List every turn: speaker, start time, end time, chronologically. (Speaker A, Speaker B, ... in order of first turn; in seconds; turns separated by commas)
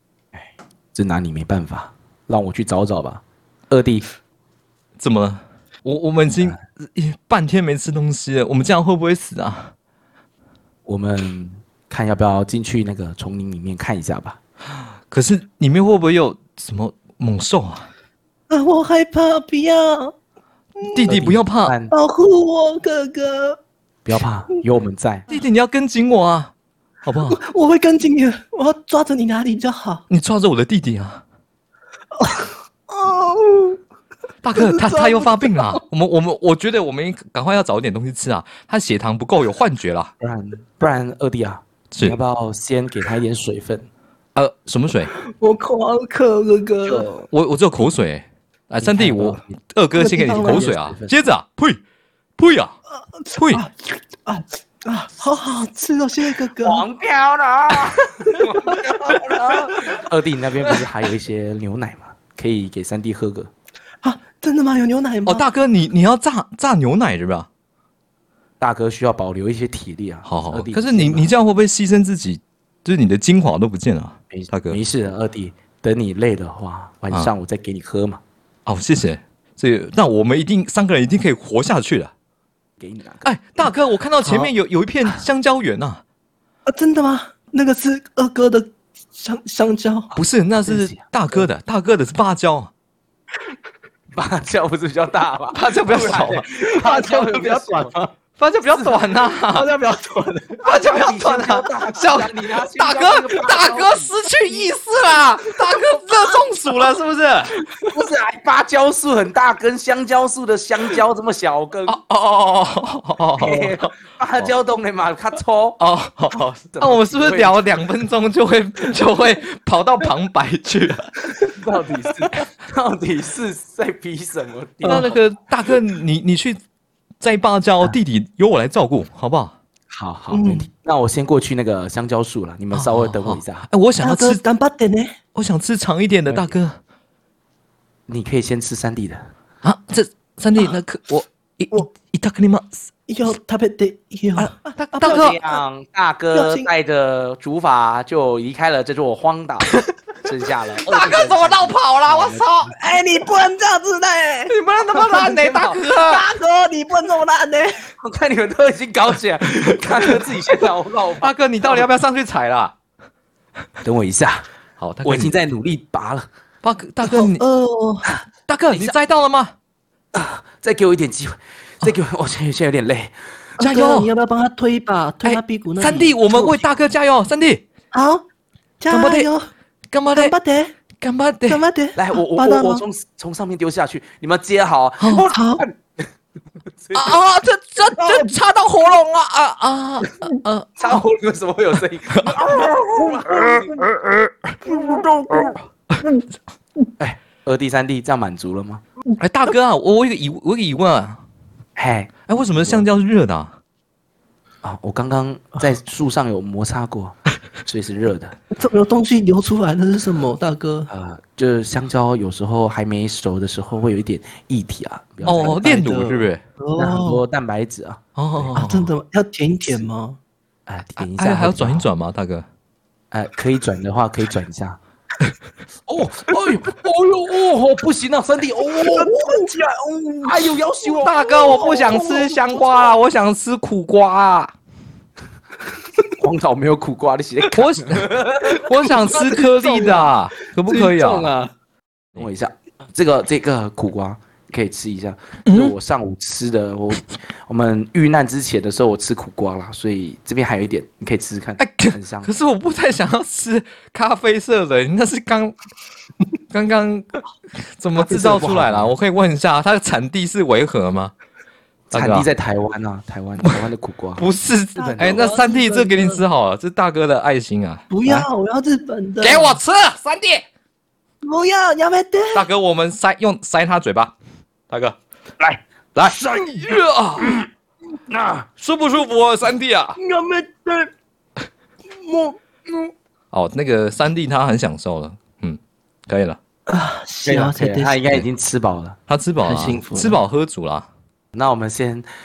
Speaker A: 0.9-4.1, Speaker B: 5.0-9.7, Speaker A: 10.8-14.4, Speaker B: 15.1-17.9, Speaker C: 18.5-20.1, Speaker B: 20.8-21.7, Speaker A: 21.1-21.9, Speaker C: 21.9-23.6, Speaker A: 24.1-25.3, Speaker B: 25.3-26.5, Speaker B: 27.1-27.4, Speaker C: 27.3-30.0, Speaker B: 30.1-31.2, Speaker C: 32.1-33.8, Speaker B: 34.4-40.1, Speaker C: 34.5-35.8, Speaker A: 40.2-43.9, Speaker B: 41.9-42.2, Speaker B: 44.3-45.1, Speaker C: 45.2-47.1, Speaker A: 46.8-47.2, Speaker B: 47.3-51.8, Speaker A: 48.8-49.5, Speaker C: 49.9-50.7, Speaker A: 50.4-51.2, Speaker B: 52.4-52.7, Speaker C: 53.2-56.8, Speaker B: 53.3-53.6, Speaker A: 56.5-63.5, Speaker C: 58.3-58.8, Speaker C: 64.0-65.4, Speaker B: 65.2-67.5, Speaker A: 68.6-71.3, Speaker B: 70.2-74.8, Speaker A: 74.3-78.2, Speaker B: 78.7-82.1, Speaker A: 82.8-83.3, Speaker B: 83.2-86.0, Speaker C: 84.2-84.5, Speaker C: 86.7-90.1, Speaker A: 90.1-91.4, Speaker B: 90.1-92.7, Speaker A: 94.1-98.0, Speaker B: 95.5-96.5, Speaker C: 96.8-98.1, Speaker B: 98.4-99.7, Speaker A: 98.7-99.0, Speaker C: 99.5-100.6, Speaker A: 100.6-104.1, Speaker B: 100.6-107.5, Speaker A: 107.8-112.0, Speaker B: 111.9-114.5, Speaker A: 113.4-115.8, Speaker B: 115.8-121.1, Speaker A: 116.3-117.7, Speaker A: 121.5-125.1, Speaker C: 122.0-122.3, Speaker C: 124.8-125.1, Speaker B: 124.8-126.6, Speaker B: 127.2-129.5, Speaker A: 129.9-133.7, Speaker C: 130.3-130.7, Speaker B: 132.7-134.4, Speaker C: 134.0-135.2, Speaker B: 135.3-136.8, Speaker A: 136.3-136.5, Speaker A: 138.1-139.2, Speaker B: 139.6-142.8, Speaker C: 143.1-145.6, Speaker B: 144.4-145.4, Speaker A: 145.0-152.5, Speaker C: 146.3-146.7, Speaker B: 150.8-152.7, Speaker C: 152.7-154.5, Speaker B: 154.5-156.3, Speaker A: 154.9-155.8, Speaker C: 156.0-157.8, Speaker A: 158.0-161.9, Speaker B: 161.2-162.7, Speaker A: 163.8-164.4, Speaker B: 164.8-165.3, Speaker A: 165.0-166.3, Speaker B: 166.6-167.4, Speaker C: 167.1-168.2, Speaker B: 168.5-169.5, Speaker A: 168.7-168.9, Speaker A: 170.1-173.2, Speaker C: 173.6-176.6, Speaker B: 173.6-174.1, Speaker B: 175.2-177.6, Speaker C: 177.9-178.2, Speaker C: 178.8-179.5, Speaker B: 178.9-179.3, Speaker B: 179.9-180.3, Speaker C: 180.1-180.7, Speaker B: 181.0-181.7, Speaker C: 181.5-182.8, Speaker A: 181.9-186.0, Speaker C: 185.3-185.6, Speaker A: 186.7-187.2, Speaker B: 186.9-191.0, Speaker C: 187.8-188.3, Speaker A: 190.8-193.9, Speaker B: 192.2-192.7, Speaker B: 193.4-194.3, Speaker C: 194.7-195.6, Speaker A: 197.0-198.8, Speaker B: 199.2-201.2, Speaker A: 201.8-202.9, Speaker B: 202.3-203.5, Speaker A: 204.6-208.3, Speaker C: 208.5-210.9, Speaker A: 210.9-215.9, Speaker B: 215.2-216.4, Speaker C: 215.4-217.2, Speaker A: 216.8-218.6, Speaker B: 218.2-218.9, Speaker C: 218.6-220.2, Speaker A: 220.7-221.9, Speaker B: 221.0-222.5, Speaker A: 223.1-224.8, Speaker A: 225.9-229.3, Speaker C: 228.8-230.6, Speaker A: 230.2-232.9, Speaker B: 231.0-234.5, Speaker C: 231.4-232.2, Speaker A: 236.1-238.7, Speaker B: 237.5-241.3, Speaker C: 239.0-240.2, Speaker C: 240.7-241.5, Speaker A: 242.2-252.3, Speaker B: 245.5-245.7, Speaker B: 251.6-255.5, Speaker B: 256.5-261.1, Speaker A: 258.0-258.9, Speaker A: 261.9-264.2, Speaker B: 261.9-262.3, Speaker B: 264.2-268.3, Speaker A: 264.8-265.4, Speaker C: 264.9-266.2, Speaker C: 267.9-269.6, Speaker B: 269.2-270.4, Speaker C: 271.2-272.5, Speaker B: 272.3-274.1, Speaker B: 274.7-275.0, Speaker A: 275.4-276.6, Speaker B: 275.9-277.4, Speaker A: 278.1-278.4, Speaker B: 278.6-280.0, Speaker C: 280.0-280.9, Speaker C: 281.9-282.4, Speaker B: 283.3-286.4, Speaker C: 286.7-288.0, Speaker A: 287.3-289.0, Speaker B: 289.1-290.9, Speaker C: 289.4-290.2, Speaker A: 291.3-292.1